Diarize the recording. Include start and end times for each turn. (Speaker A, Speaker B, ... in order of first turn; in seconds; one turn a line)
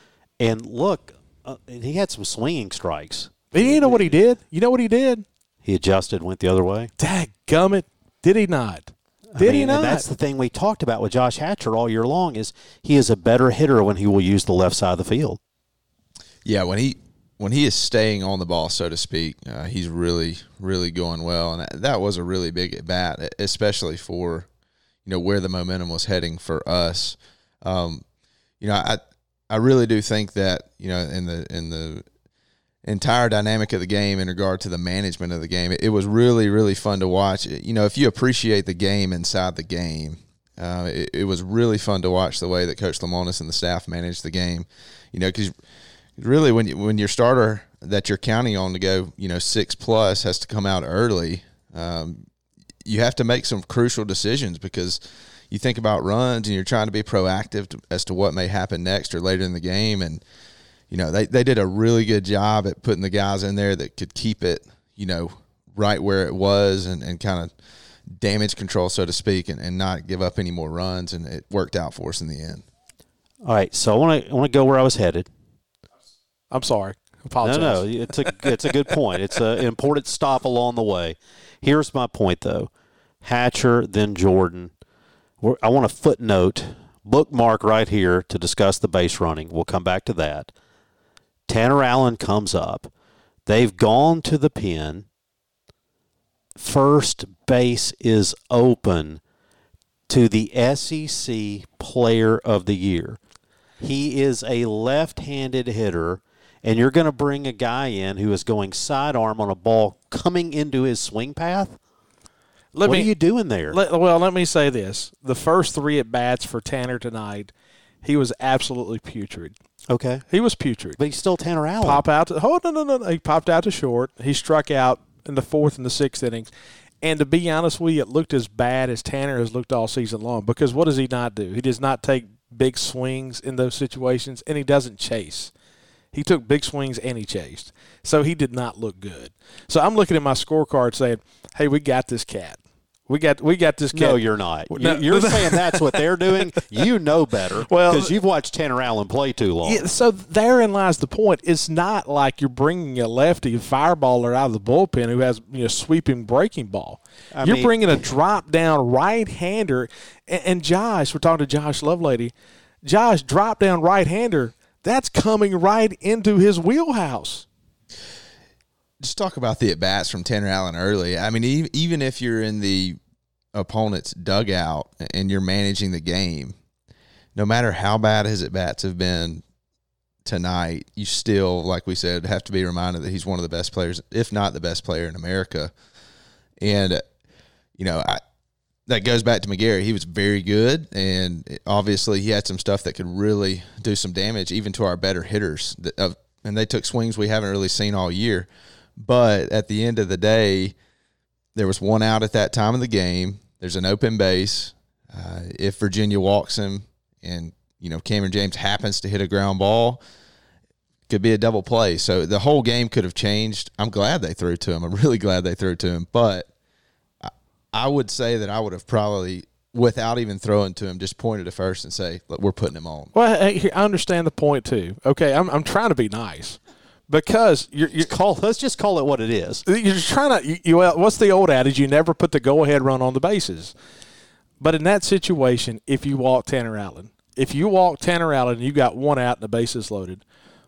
Speaker A: 0.4-4.2
Speaker B: 3.5-5.2
Speaker A: 5.7-6.9
Speaker B: 7.0-10.0
Speaker A: 9.4-15.4
Speaker C: 16.4-24.5
Speaker C: 25.1-28.0
Speaker C: 28.6-32.0
Speaker C: 32.8-45.5
Speaker C: 46.2-52.3
Speaker C: 52.8-55.0
Speaker C: 55.5-60.2
Speaker C: 60.9-67.5
Speaker C: 68.1-72.6
Speaker A: 73.4-75.3
Speaker B: 76.5-77.8
Speaker A: 77.4-82.7
Speaker A: 83.2-84.7
Speaker A: 85.4-90.5
Speaker A: 91.5-92.9
Speaker A: 93.5-95.1
Speaker A: 96.6-99.2
Speaker A: 100.1-103.2
Speaker A: 103.8-111.8
Speaker B: 112.8-113.1
Speaker A: 112.8-113.8
Speaker B: 113.7-117.5
Speaker B: 118.0-119.5
Speaker A: 119.9-120.3
Speaker B: 120.3-121.0
Speaker A: 121.0-122.0
Speaker B: 121.8-126.5
Speaker B: 127.0-135.5
Speaker B: 136.1-144.2
Speaker A: 143.9-149.8
Speaker B: 144.7-146.0
Speaker B: 147.7-148.1
Speaker B: 149.7-162.3
Speaker A: 157.3-157.8
Speaker B: 162.8-167.5
Speaker C: 169.0-173.0
Speaker C: 173.5-176.6
Speaker C: 177.3-179.4
Speaker C: 180.2-185.7
Speaker C: 186.6-187.0
Speaker C: 187.8-188.2
Speaker C: 188.9-200.8
Speaker C: 201.6-210.0
Speaker C: 211.1-216.5
Speaker C: 217.2-223.1
Speaker B: 223.1-228.1
Speaker A: 228.1-229.6
Speaker B: 229.7-233.7
Speaker B: 234.6-240.2